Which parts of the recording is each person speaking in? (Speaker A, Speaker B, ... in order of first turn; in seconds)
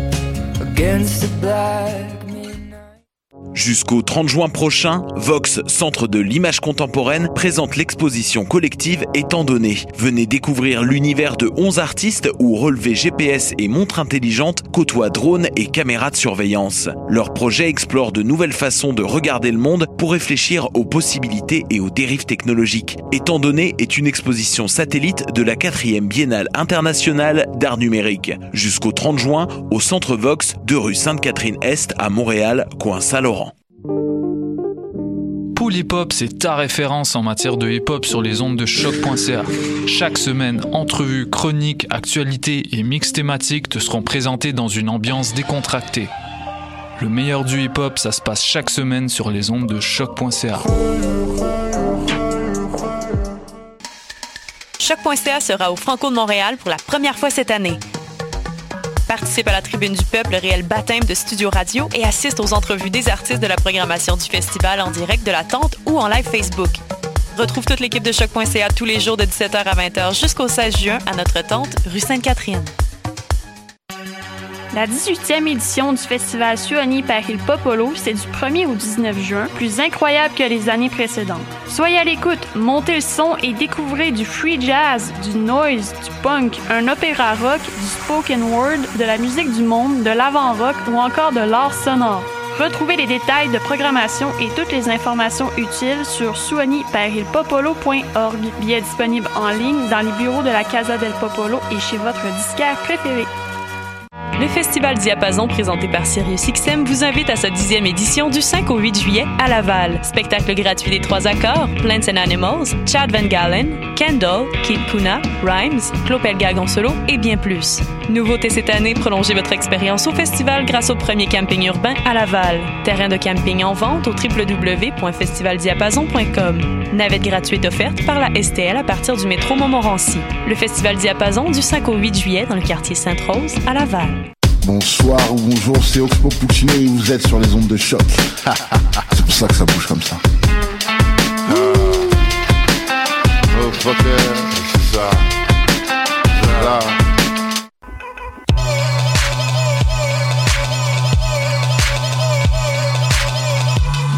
Speaker A: 0.6-2.9
Speaker B: 3.5-33.5
Speaker C: 35.5-46.1, 47.0-50.7
Speaker D: 54.8-57.8, 59.1-66.8, 67.3-72.7, 104.4-134.2
Speaker E: 74.7-103.3
Speaker F: 134.6-140.2, 141.5-142.1, 143.5-145.2, 146.3-147.0